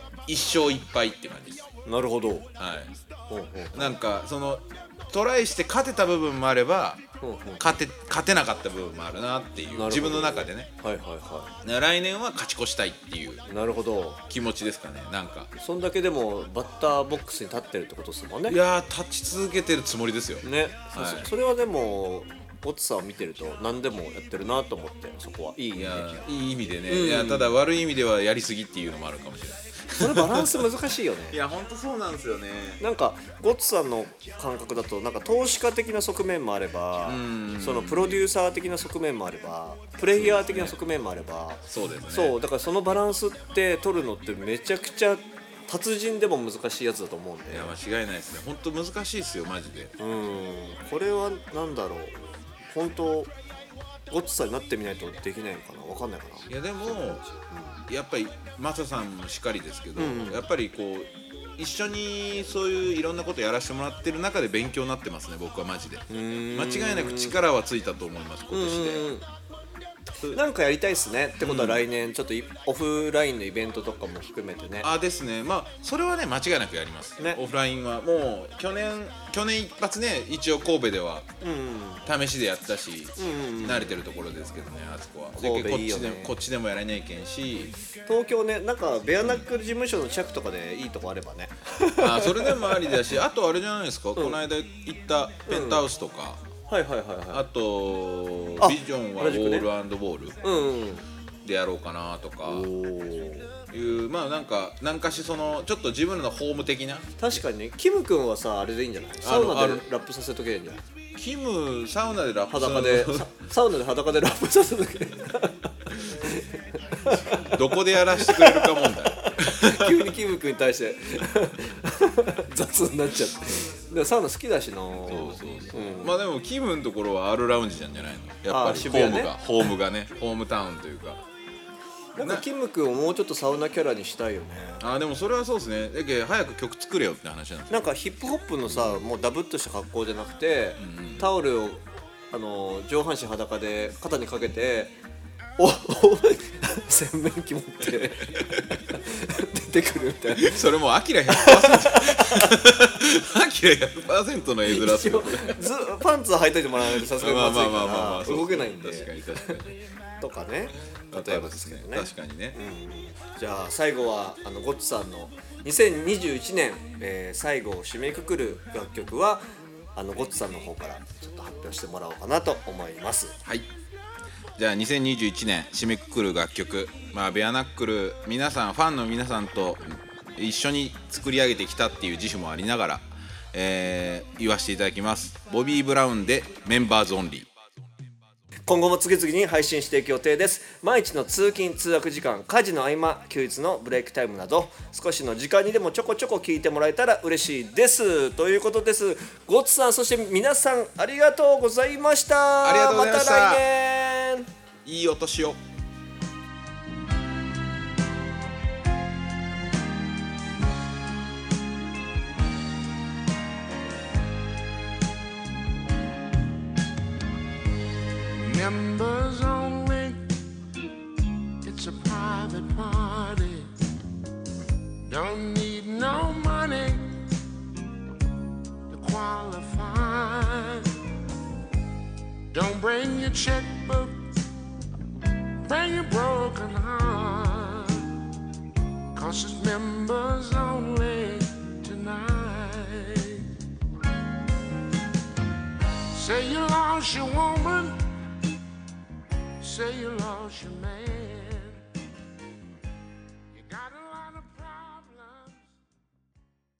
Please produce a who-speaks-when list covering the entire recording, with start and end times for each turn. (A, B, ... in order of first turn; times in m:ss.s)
0:00.3-0:01.6 A
0:01.8-0:02.5 B
0:02.6-0:02.9 A
0:03.3-0:04.0 B
0:03.7-0:07.0 A
0:07.2-0:07.8 B
0:07.6-0:10.7 A
0:09.7-0:11.5 B
0:11.6-0:13.4 A
0:13.5-0:14.2 B
0:14.3-0:15.5 A
0:15.6-0:18.6 B
0:18.5-0:21.3 A
0:20.4-0:26.2 B
0:25.7-0:30.7 A
0:26.9-0:27.5 B
0:30.0-0:31.4 B
0:31.3-0:32.8 A
0:32.8-0:47.7 B
0:37.0-0:38.3 A
0:40.1-0:40.8 A
0:41.7-0:42.4 A
0:47.5-0:49.9 A
0:50.0-0:53.3 B
0:54.1-0:57.8 B
0:56.5-0:57.2 A
0:57.9-1:09.0 A
1:00.0-1:00.4 B
1:06.1-1:07.4 B
1:08.5-1:09.2 B
1:10.3-1:14.9 B
1:11.4-1:11.8 A
1:14.8-1:21.3 A
1:21.4-1:22.0 B
1:22.0-1:27.7 A
1:23.2-1:24.0 B
1:25.4-1:26.3 B
1:28.1-1:33.0 B
1:29.2-1:29.5 A
1:31.9-1:36.4 A
1:35.5-1:35.8 B
1:36.7-1:37.4 B
1:37.3-1:40.4 A
1:38.6-1:39.7 B
1:40.4-1:41.0 B
1:41.4-1:42.7 A
1:42.4-1:43.5 B
1:43.7-1:47.2 A
1:47.2-1:50.8 B
1:49.2-1:49.8 A
1:51.1-1:53.3 A
1:52.5-2:06.2 B
1:57.1-2:00.0 A
2:05.1-2:11.2 A
2:08.5-2:09.4 B
2:12.2-2:14.8 B
2:12.2-2:12.4 A
2:14.8-2:17.9 A
2:17.7-2:25.0 B
2:20.8-2:21.3 A
2:25.6-2:30.6 B
2:28.4-2:28.8 A
2:30.3-2:35.6 A
2:31.3-2:32.6 B
2:34.7-2:39.6 B
2:36.8-2:39.7 A
2:40.2-2:49.4 B
2:41.1-2:42.6 A
2:49.9-2:53.3 B
2:54.6-3:07.5 A
3:08.7-3:24.5 B
3:22.6-3:23.6 A
3:24.8-3:25.6 A
3:38.4-3:40.3 C
3:41.6-3:43.7 C
3:45.0-3:47.2 C
3:48.9-3:50.9 C
3:52.5-3:54.3 C
3:55.6-3:58.2 C
3:59.1-4:03.5 C
4:06.1-4:08.0 C
4:09.6-4:11.8 C
4:13.5-4:15.7 C